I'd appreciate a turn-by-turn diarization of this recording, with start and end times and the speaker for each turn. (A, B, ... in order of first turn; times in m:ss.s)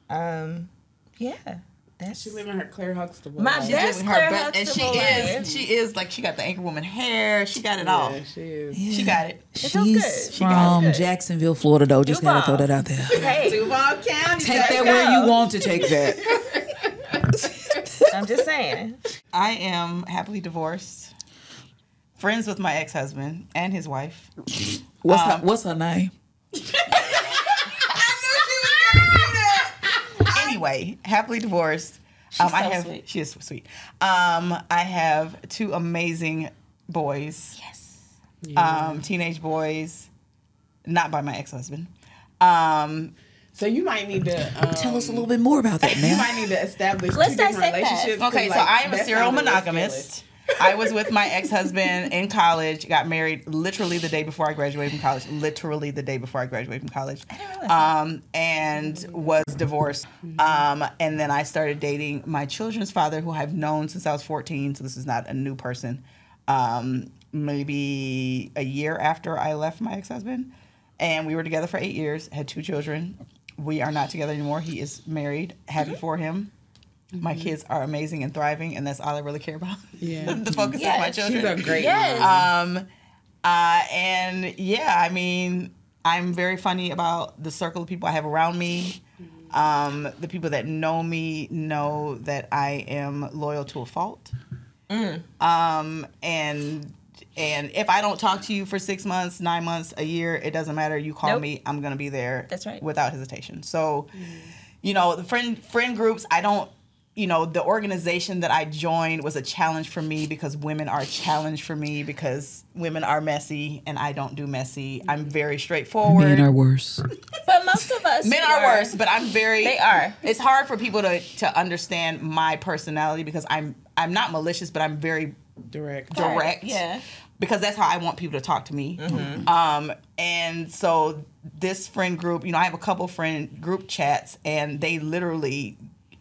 0:00.1-0:02.4 A
0:02.1-0:03.9 B
0:03.4-0:05.5 A
0:03.6-0:08.2 C
0:05.1-0:05.4 B
0:07.8-0:08.8 B
0:08.7-0:13.3 D
0:08.9-0:09.5 C
0:09.6-0:11.1 A
0:10.3-0:10.8 C
0:12.0-0:13.7 A
0:13.4-0:16.0 E
0:14.4-0:16.4 D
0:14.8-0:15.2 A
0:16.2-0:17.2 B
0:17.8-0:18.0 D
0:18.1-0:19.0 A
0:19.3-0:21.1 C
0:22.2-0:24.3 C
0:24.6-0:26.1 D
0:25.1-0:25.4 C
0:27.8-0:29.7 E
0:30.3-0:37.6 C
0:32.3-0:33.0 A
0:37.6-0:38.0 A
0:38.4-0:39.0 B
0:38.5-0:40.1 C
0:40.8-0:43.1 C
0:43.5-0:45.3 B
0:44.7-0:46.3 D
0:45.8-0:50.1 B
0:47.1-0:48.2 A
0:48.2-1:16.5 C
0:50.6-0:51.3 B
0:57.3-0:57.9 A
1:00.2-1:00.6 B
1:17.1-1:17.5 B
1:17.2-1:22.8 C
1:20.0-1:20.5 B
1:20.4-1:20.8 D
1:20.7-1:22.4 A
1:21.0-1:22.5 B
1:23.4-1:34.3 C
1:34.9-1:35.2 A
1:35.4-1:44.1 C
1:42.5-1:42.8 A
1:44.2-1:44.5 B
1:44.8-1:56.5 C
1:56.0-1:57.1 D
1:57.4-1:59.0 A
1:58.2-2:05.4 C
1:59.6-2:00.2 A
2:05.7-2:06.3 B
2:06.1-2:06.8 C
2:06.1-2:07.0 A
2:07.4-2:15.8 C
2:09.0-2:09.4 A